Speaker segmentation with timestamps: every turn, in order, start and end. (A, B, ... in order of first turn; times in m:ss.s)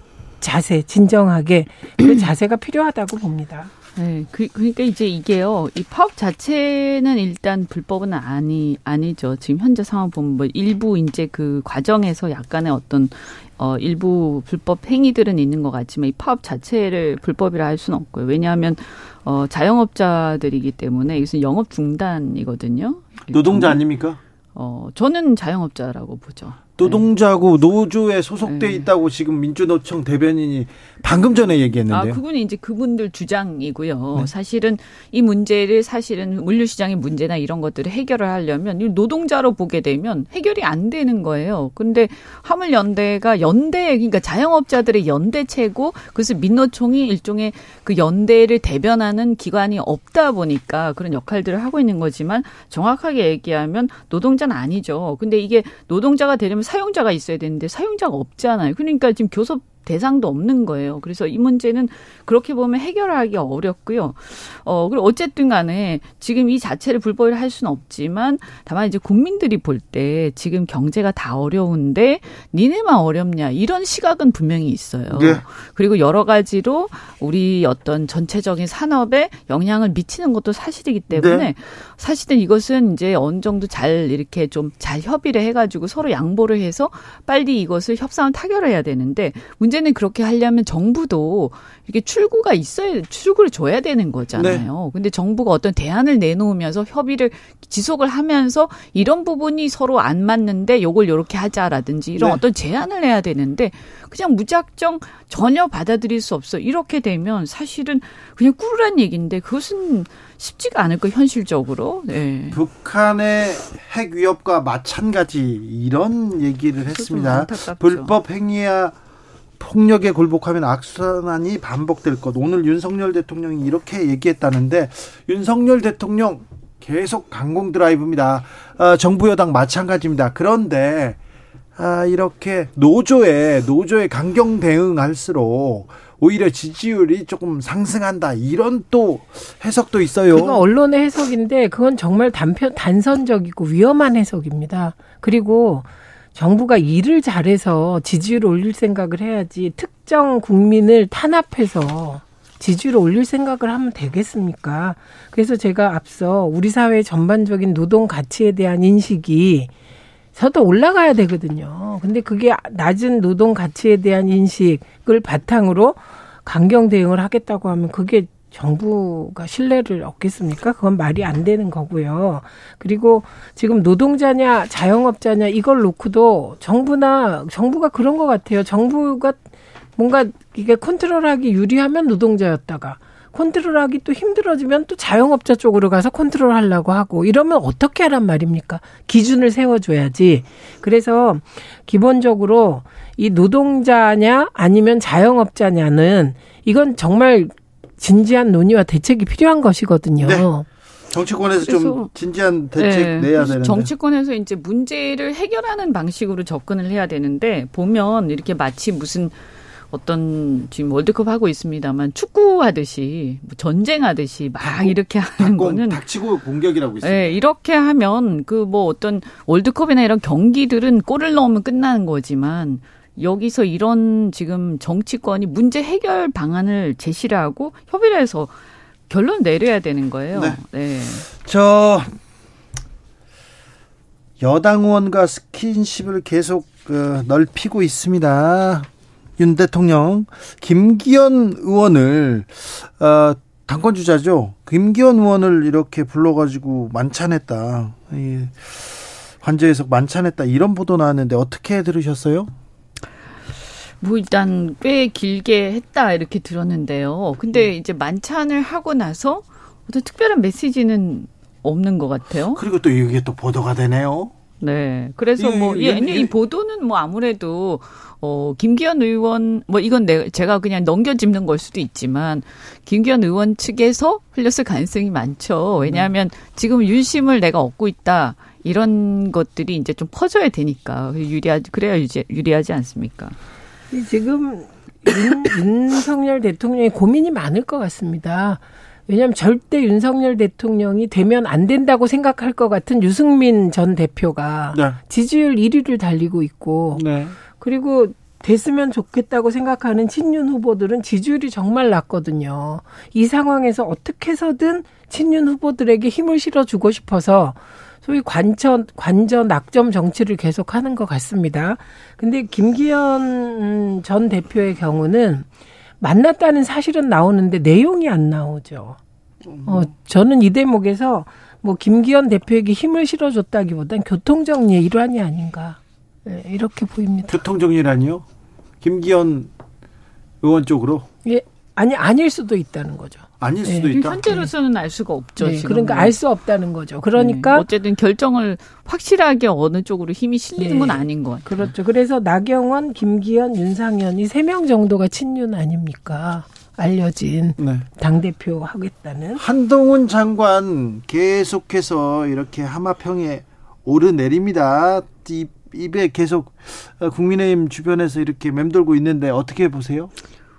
0:00.4-0:03.7 A
0:04.0-0:23.8 B
0:23.3-0:24.2 C
0:24.5-0:27.1 B
0:26.8-0:32.2 C
0:28.4-0:28.9 B
0:31.0-1:52.6 B
1:15.1-1:15.4 C
1:21.1-1:21.5 C
1:34.4-1:34.6 C
1:52.5-1:58.9 C
1:56.9-1:58.2 B
1:59.6-2:11.2 C
2:11.8-2:20.6 C
2:20.3-2:39.7 A
2:40.3-2:59.4 A
3:00.0-3:20.6 A
3:20.2-3:20.5 C
3:21.1-3:23.9 C
3:21.6-3:22.1 B
3:22.8-3:29.3 B
3:29.9-3:36.0 B
3:34.6-3:37.4 C
3:37.0-3:48.6 B
3:49.1-3:51.3 B
3:50.3-3:50.6 C
3:51.2-3:52.1 C
3:54.4-3:58.9 C
3:59.4-4:12.5 C
4:14.0-4:22.6 B
4:22.6-4:24.3 C
4:24.6-4:43.4 B
4:25.4-4:26.3 C
4:43.9-5:15.5 A
4:57.0-4:57.4 C
5:16.0-5:19.0 A
5:19.5-5:19.9 C
5:19.6-5:27.4 A
5:27.3-5:28.2 C
5:28.8-5:29.5 C
5:30.4-5:31.1 C
5:31.2-5:34.5 A
5:33.4-5:34.2 C
5:33.9-5:36.1 B
5:35.4-5:37.7 A
5:37.2-5:41.5 B
5:40.6-5:49.4 A
5:47.6-5:47.8 C
5:49.4-6:00.1 C